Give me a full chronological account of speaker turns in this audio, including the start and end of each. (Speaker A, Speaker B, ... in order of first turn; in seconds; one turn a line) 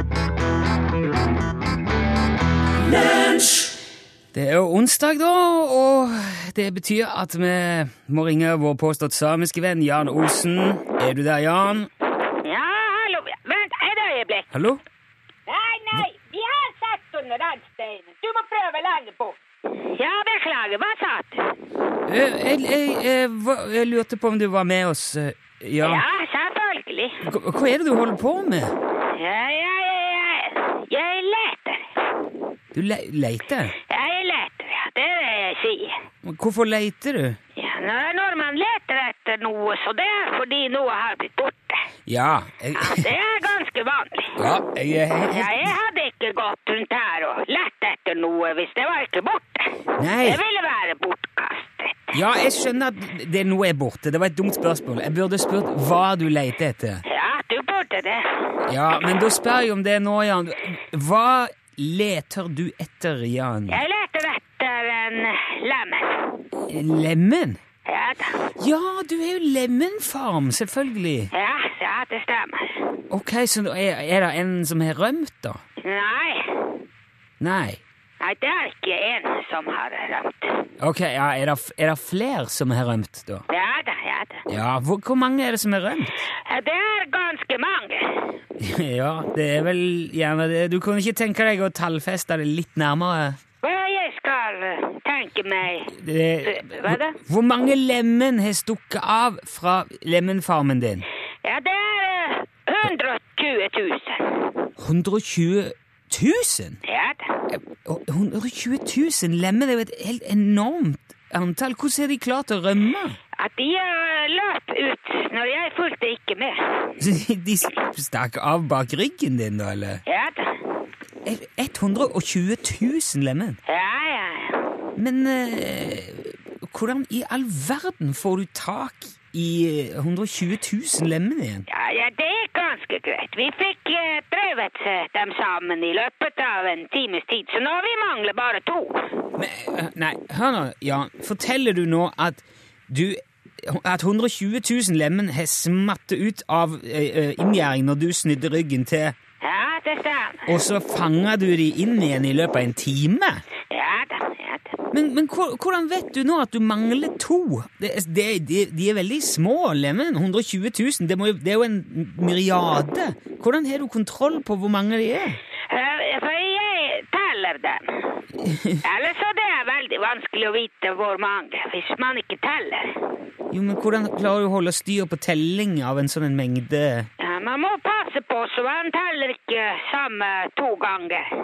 Speaker A: 4.3-11.9
Speaker B: 12.2-14.5
Speaker A: 14.5-14.8
Speaker B: 15.5-21.5
Speaker A: 22.1-26.0
Speaker B: 25.8-27.2
Speaker A: 27.2-28.8
Speaker B: 29.0-31.9
Speaker A: 32.7-33.8
Speaker B: 33.9-36.0
Speaker A: 36.2-37.4
Speaker B: 37.6-41.9
Speaker A: 42.1-43.1
Speaker B: 42.8-44.4
Speaker A: 44.4-45.7
Speaker B: 45.3-49.7
Speaker A: 50.0-50.4
Speaker B: 50.2-52.1
Speaker A: 52.1-57.0
Speaker B: 57.1-58.5
Speaker A: 58.7-63.8
Speaker B: 63.7-66.4
Speaker A: 66.7-67.6
Speaker B: 67.9-68.4
Speaker A: 68.6-71.3
Speaker B: 71.3-72.8
Speaker A: 73.1-75.6
Speaker B: 75.8-76.7
Speaker A: 77.4-77.8
Speaker B: 78.2-80.6
Speaker A: 80.8-83.5
Speaker B: 83.5-84.4
Speaker A: 84.5-86.3
Speaker B: 86.5-88.3
Speaker A: 88.6-93.4
Speaker B: 93.6-97.2
Speaker A: 95.9-101.1
Speaker B: 101.4-104.6
Speaker A: 104.8-106.8
Speaker B: 106.8-107.3
Speaker A: 107.5-113.2
Speaker B: 113.4-116.9
Speaker A: 117.0-120.0
Speaker B: 120.1-120.6
Speaker A: 121.2-123.6
Speaker B: 123.7-124.7
Speaker A: 125.0-131.7
Speaker B: 131.7-139.1
Speaker A: 139.4-149.2
Speaker B: 149.4-150.6
Speaker A: 150.5-153.4
Speaker B: 153.7-154.7
Speaker A: 154.9-165.4
Speaker B: 165.7-168.1
Speaker A: 168.4-168.8
Speaker B: 168.8-173.0
Speaker A: 173.5-177.1
Speaker B: 177.2-181.3